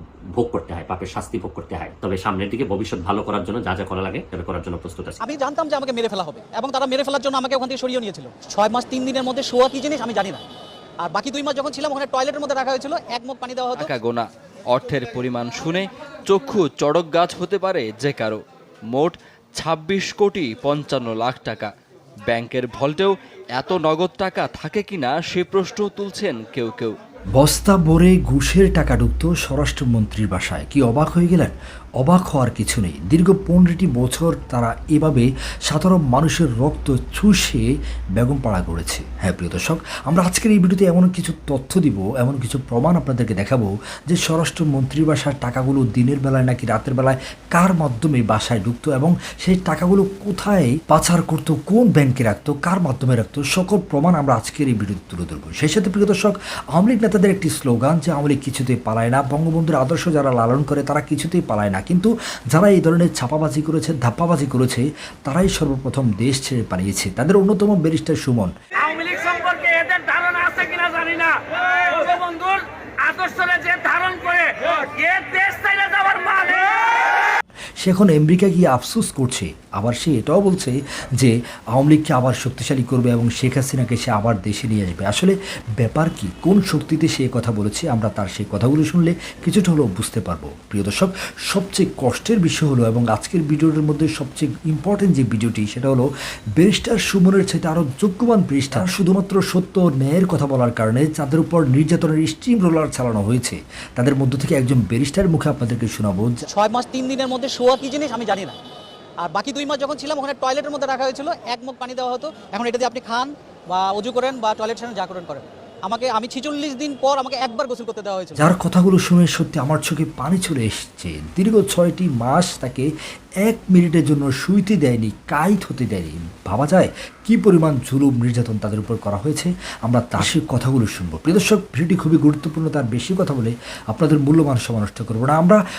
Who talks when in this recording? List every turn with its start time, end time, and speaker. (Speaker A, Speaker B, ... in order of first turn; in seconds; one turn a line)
Speaker A: 0.3-5.2
Speaker B: 5.2-10.4
Speaker B: 11.0-13.9
Speaker C: 13.8-18.4
Speaker C: 18.9-21.7
Speaker C: 22.3-26.9
Speaker D: 27.4-68.5
Speaker E: 68.8-76.5
Speaker D: 77.8-96.0
Speaker D: 96.6-106.4
Speaker B: 106.5-108.6
Speaker B: 109.2-118.4
Speaker D: 118.4-122.9
Speaker D: 123.4-135.6